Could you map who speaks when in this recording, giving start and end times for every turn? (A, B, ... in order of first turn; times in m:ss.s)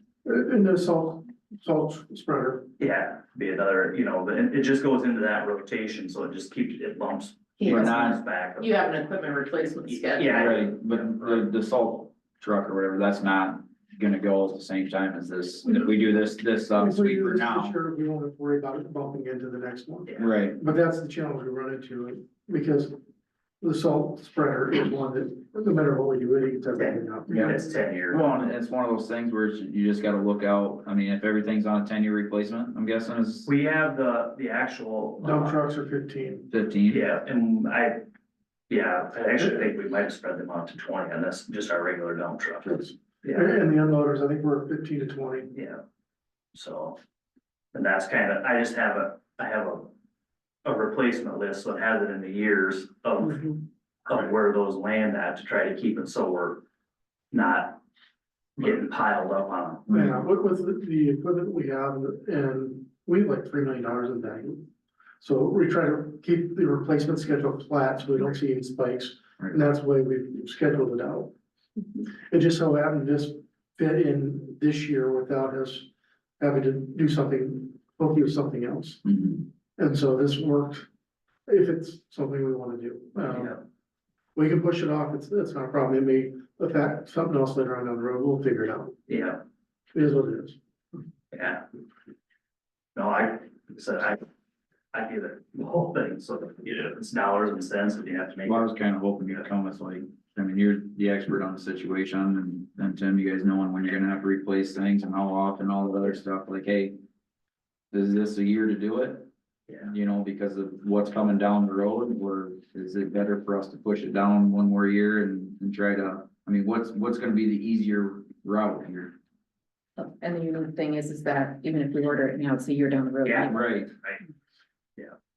0:00.2-0:02.7 A
0:02.8-0:08.9 B
0:07.6-0:10.6 C
0:07.6-0:08.2 D
0:09.9-0:11.4 B
0:10.3-0:17.7 D
0:16.8-0:23.0 A
0:20.1-0:20.4 B
0:20.2-0:20.6 D
0:23.6-0:27.6 A
0:26.8-0:28.5 B
0:27.3-0:33.5 D
0:33.4-0:35.6 B
0:35.2-0:36.5 A
0:36.5-0:37.0 D
0:36.9-0:38.0 B
0:38.7-0:43.6 B
0:42.7-0:45.5 A
0:45.5-0:45.8 B
0:46.5-0:47.0 B
0:47.7-0:49.9 B
0:50.6-0:56.6 B
0:57.3-0:57.8 B
0:58.6-0:59.9 B
0:59.9-1:00.2 D
0:59.9-1:04.7 A
1:05.2-1:11.3 A
1:12.3-1:15.9 A
1:16.4-1:19.0 A
1:19.0-1:19.4 D
1:19.8-1:20.8 A
1:21.5-1:23.6 A
1:23.3-1:23.6 B
1:24.4-1:28.9 A
1:29.1-1:29.4 B
1:29.9-1:30.6 A
1:31.3-1:31.6 B
1:32.9-1:34.2 B
1:34.9-1:38.7 B
1:38.4-1:47.0 D
1:47.9-1:49.3 D
1:49.7-1:49.9 B
1:49.8-1:59.2 D
2:00.0-2:03.6 C
2:03.2-2:04.2 B
2:03.5-2:03.9 D